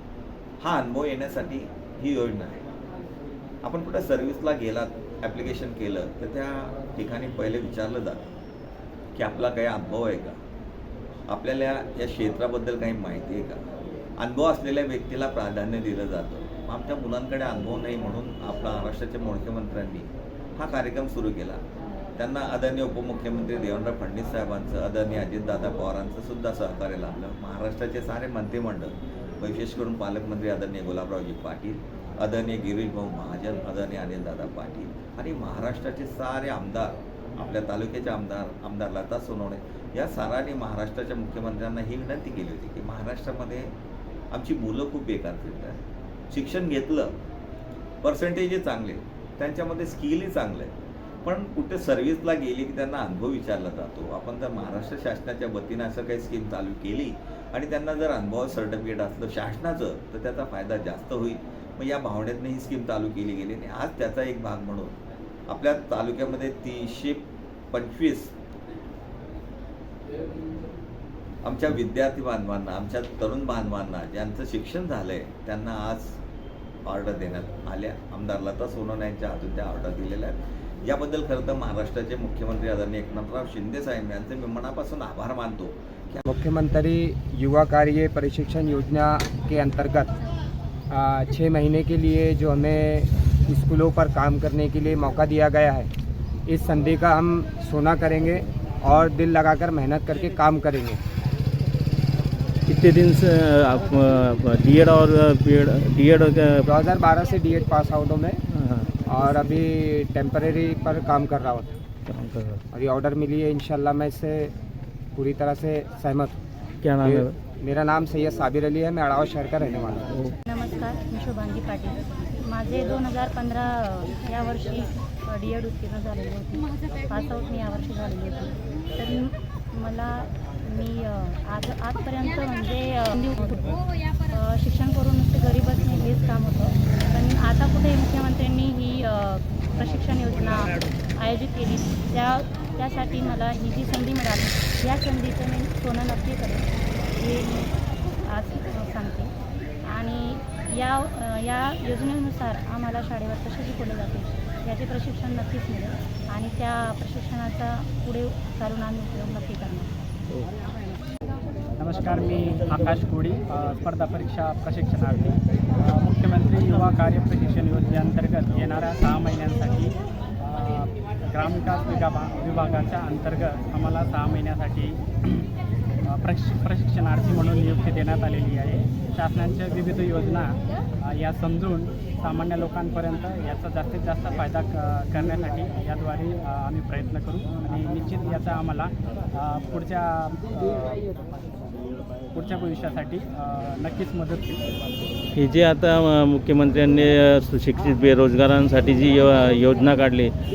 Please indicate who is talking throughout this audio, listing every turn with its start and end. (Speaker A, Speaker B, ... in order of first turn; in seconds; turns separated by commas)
Speaker A: 0.6-2.7, Speaker A: 3.6-8.3, Speaker A: 9.1-10.4, Speaker A: 11.3-13.6, Speaker A: 14.2-21.6, Speaker A: 22.2-43.7, Speaker A: 44.3-47.1, Speaker A: 48.0-50.7, Speaker A: 51.2-64.9, Speaker A: 65.5-68.3, Speaker A: 71.4-76.2, Speaker A: 76.8-86.2, Speaker B: 86.2-90.1, Speaker B: 90.9-95.9, Speaker B: 96.5-101.0, Speaker C: 102.7-106.6, Speaker B: 106.7-108.4, Speaker C: 108.5-108.9, Speaker B: 109.1-111.7, Speaker C: 112.1-112.6, Speaker B: 112.7-114.5, Speaker B: 115.2-116.3, Speaker C: 116.8-117.3, Speaker B: 117.0-120.1, Speaker D: 120.5-147.7, Speaker D: 148.2-149.3, Speaker D: 149.8-159.9, Speaker E: 161.8-175.5, Speaker E: 176.1-191.2, Speaker E: 192.3-194.6, Speaker C: 195.3-200.3